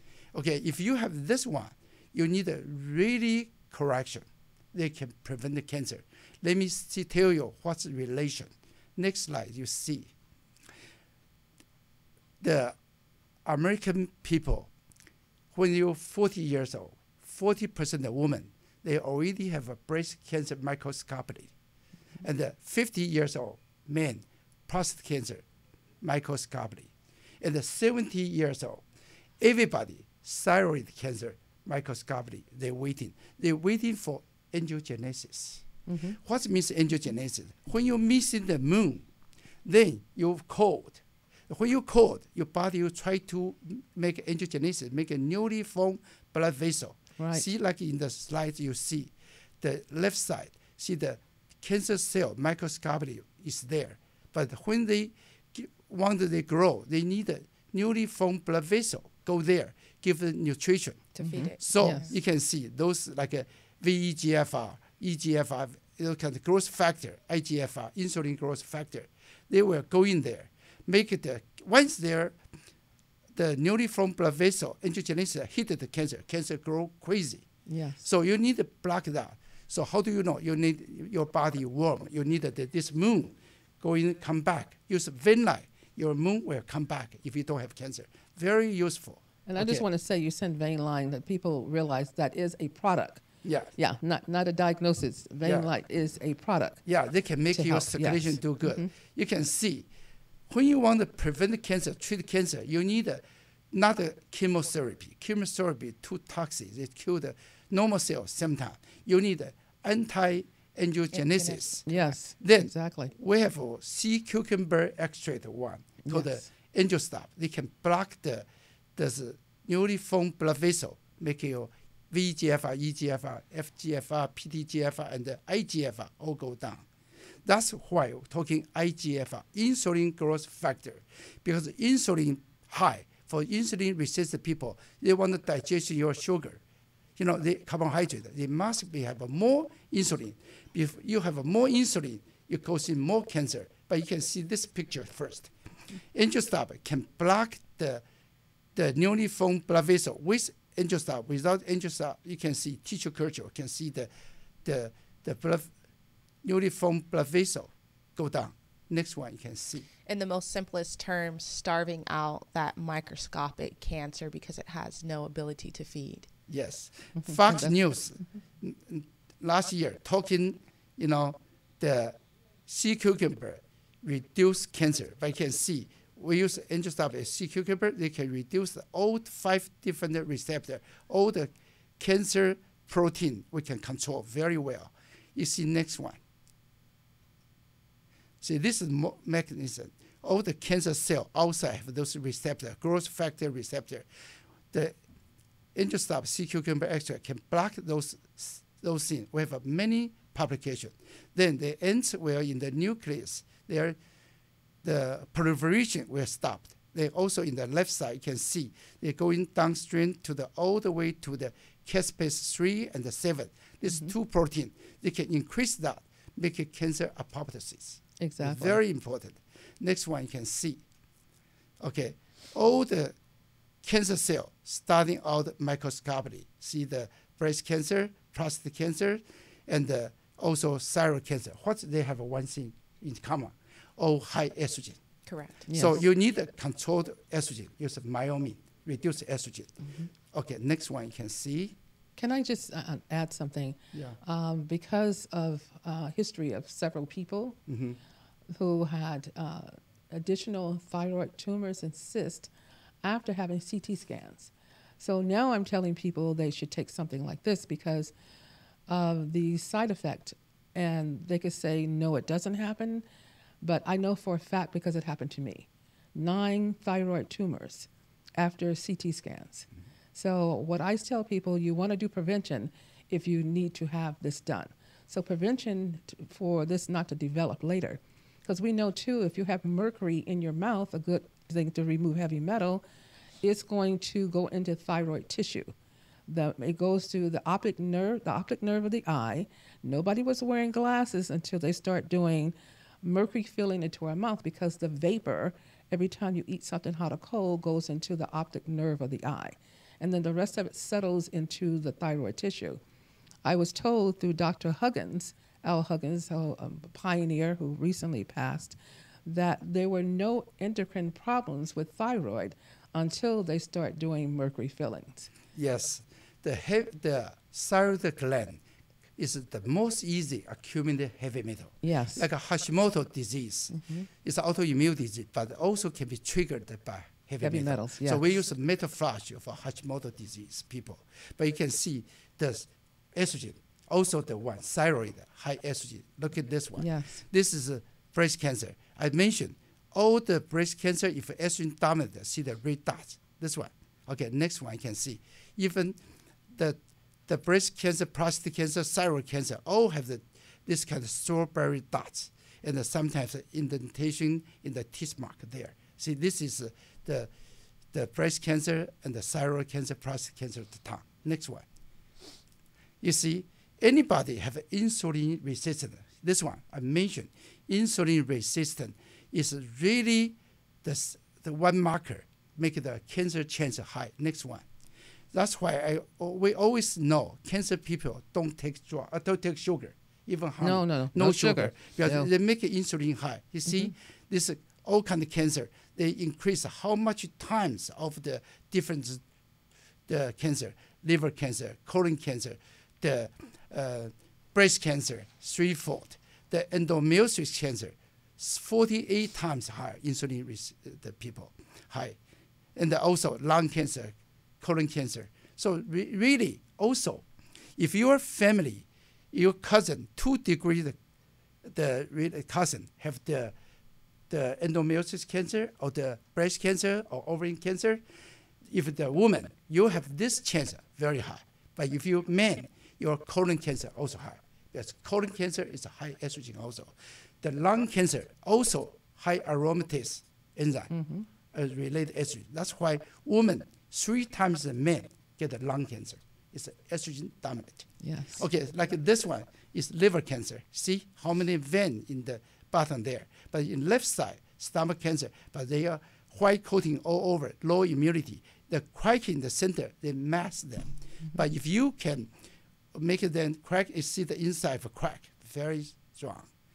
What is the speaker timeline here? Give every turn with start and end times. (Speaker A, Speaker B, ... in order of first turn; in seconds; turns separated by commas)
Speaker A: 0.3-10.1, Speaker A: 12.4-12.8, Speaker A: 13.4-14.7, Speaker A: 15.5-21.5, Speaker A: 22.2-25.4, Speaker A: 26.0-28.8, Speaker A: 29.4-39.0, Speaker B: 35.9-36.2, Speaker A: 39.6-72.4, Speaker B: 47.2-47.4, Speaker C: 61.1-62.1, Speaker B: 61.2-62.0, Speaker A: 73.3-77.5, Speaker B: 77.7-78.0, Speaker A: 78.0-89.8, Speaker B: 89.5-93.2, Speaker A: 93.4-93.7, Speaker B: 93.8-96.8, Speaker A: 95.4-95.7, Speaker A: 96.8-99.9, Speaker B: 97.5-98.9, Speaker A: 100.5-126.9, Speaker C: 111.1-112.0, Speaker B: 111.8-113.1, Speaker B: 116.0-116.5, Speaker A: 127.4-136.6, Speaker A: 137.2-145.5, Speaker A: 146.1-148.0, Speaker A: 148.7-154.1, Speaker A: 154.6-155.7, Speaker A: 156.4-159.9, Speaker C: 160.1-166.3, Speaker A: 166.5-186.2, Speaker B: 167.2-167.8, Speaker A: 188.4-194.1, Speaker A: 194.7-195.0, Speaker A: 195.7-204.0, Speaker A: 204.8-220.8, Speaker B: 213.9-214.1, Speaker B: 218.2-218.8, Speaker A: 221.8-223.1, Speaker A: 223.8-235.0, Speaker C: 235.3-235.7, Speaker B: 235.7-236.0, Speaker A: 235.7-241.8, Speaker B: 239.8-240.1, Speaker B: 242.2-247.6, Speaker A: 247.7-248.0, Speaker B: 248.5-252.5, Speaker B: 253.0-258.1, Speaker B: 258.9-263.1, Speaker B: 263.6-282.8, Speaker B: 283.4-285.7, Speaker B: 286.3-302.8, Speaker B: 303.4-315.3, Speaker A: 315.5-318.6, Speaker A: 319.2-346.0, Speaker B: 321.8-322.2, Speaker B: 323.7-324.1, Speaker B: 327.4-328.2, Speaker B: 336.8-337.2, Speaker A: 346.5-357.3, Speaker A: 357.9-361.6, Speaker A: 363.0-374.6, Speaker A: 375.3-389.2, Speaker B: 380.6-382.3, Speaker B: 383.7-383.9, Speaker A: 390.1-402.2, Speaker A: 402.8-407.2, Speaker A: 407.8-411.0, Speaker A: 411.6-413.5, Speaker A: 414.3-418.0, Speaker A: 418.7-430.9, Speaker B: 430.9-431.3, Speaker A: 431.5-452.3, Speaker B: 438.0-438.4, Speaker A: 452.9-456.5